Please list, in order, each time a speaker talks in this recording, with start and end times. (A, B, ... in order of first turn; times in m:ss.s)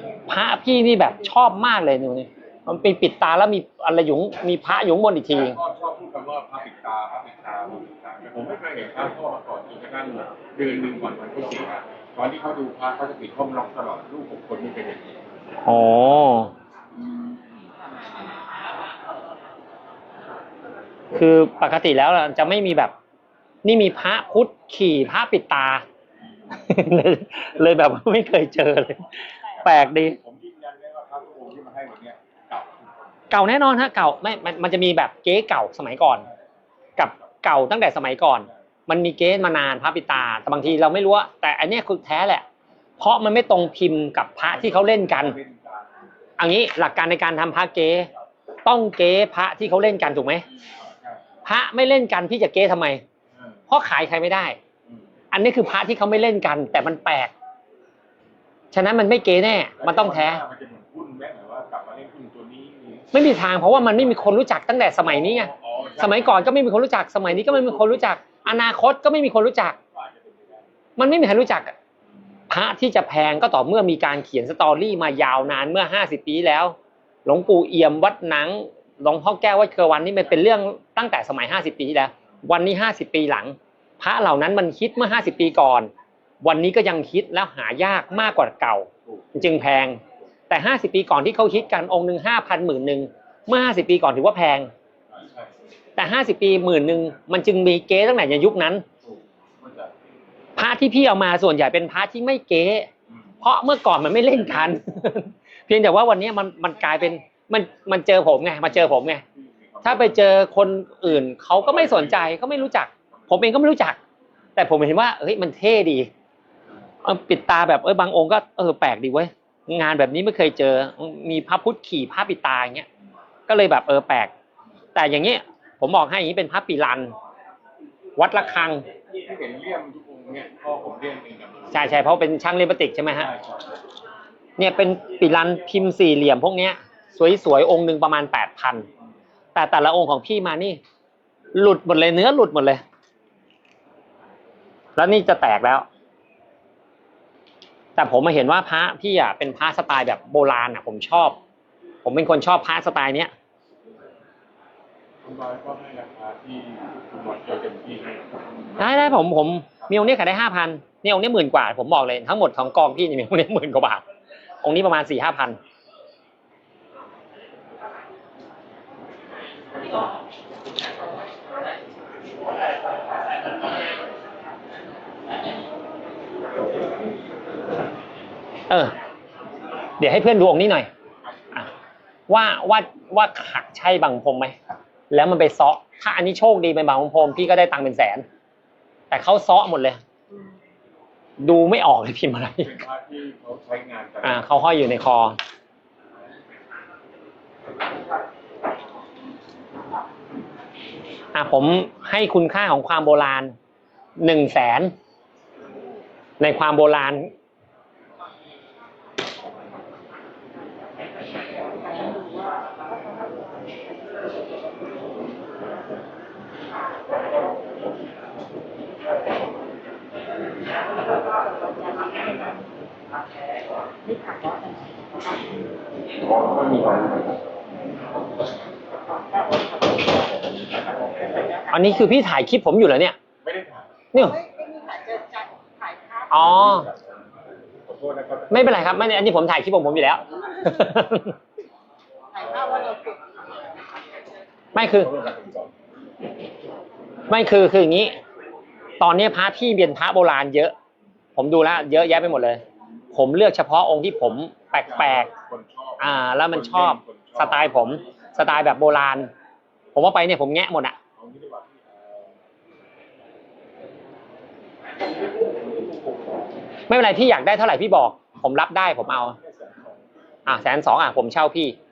0:00.3-0:05.6 A
0:05.3-0:15.1 B
0:15.6-0:16.5 A
0:21.1-0:22.9 A
0:23.6-0:25.8 A
0:26.6-0:30.2 A
0:29.6-0:32.9 B
0:33.3-0:36.3 A
0:37.0-0:42.4 A
0:43.0-0:45.4 A
0:44.5-0:46.0 B
0:46.4-0:48.1 A
0:48.6-0:50.4 A
0:50.8-0:51.2 B
0:51.4-0:53.0 A
0:53.7-0:54.6 A
0:55.3-0:57.3 A
0:58.7-1:00.4 A
0:59.8-1:03.1 B
1:03.1-1:09.8 A
1:05.2-1:06.6 B
1:09.8-1:10.7 B
1:11.0-1:11.7 A
1:12.5-1:25.9 A
1:26.4-1:34.7 A
1:35.1-1:35.5 B
1:36.0-1:38.8 A
1:39.0-1:39.9 B
1:40.6-1:42.9 A
1:43.4-1:49.2 A
1:49.3-1:50.4 B
1:49.8-1:54.0 A
1:51.6-1:52.5 B
1:54.6-1:56.1 A
1:57.0-2:02.9 A
2:03.5-2:04.3 A
2:05.0-2:07.1 A
2:08.2-2:08.9 A
2:09.2-2:12.0 B
2:11.7-2:13.3 A
2:13.1-2:13.7 B
2:14.6-2:18.9 A
2:19.6-2:20.8 A
2:21.6-2:22.8 A
2:25.0-2:25.8 A
2:28.0-2:31.4 A
2:32.0-2:33.3 A
2:35.2-2:38.3 B
2:38.8-2:44.0 A
2:44.6-2:45.6 A
3:00.0-3:00.9 A
3:02.3-3:04.6 A
3:05.1-3:08.2 A
3:09.1-3:10.0 A
3:11.4-3:12.8 A
3:12.6-3:14.6 B
3:14.2-3:15.4 A
3:21.3-3:23.5 A
3:24.2-3:24.9 A
3:26.4-3:27.3 A
3:41.6-3:42.2 C
3:44.0-3:45.2 C
3:46.4-3:47.2 B
3:51.7-3:53.2 A
3:53.4-3:54.0 B
3:54.1-3:54.4 A
3:54.2-3:56.3 C
3:56.3-3:56.9 A
3:56.6-3:56.9 B
3:57.9-3:59.0 B
3:58.5-4:01.4 A
4:02.3-4:03.4 C
4:04.7-4:05.1 A
4:05.0-4:05.7 B
4:07.3-4:08.2 A
4:09.0-4:10.7 A
4:11.4-4:12.6 A
4:13.1-4:15.3 A
4:14.7-4:18.0 B
4:16.0-4:19.3 A
4:20.0-4:21.0 A
4:21.2-4:22.4 B
4:26.9-4:29.4 A
4:29.2-4:30.0 B
4:30.5-4:31.8 A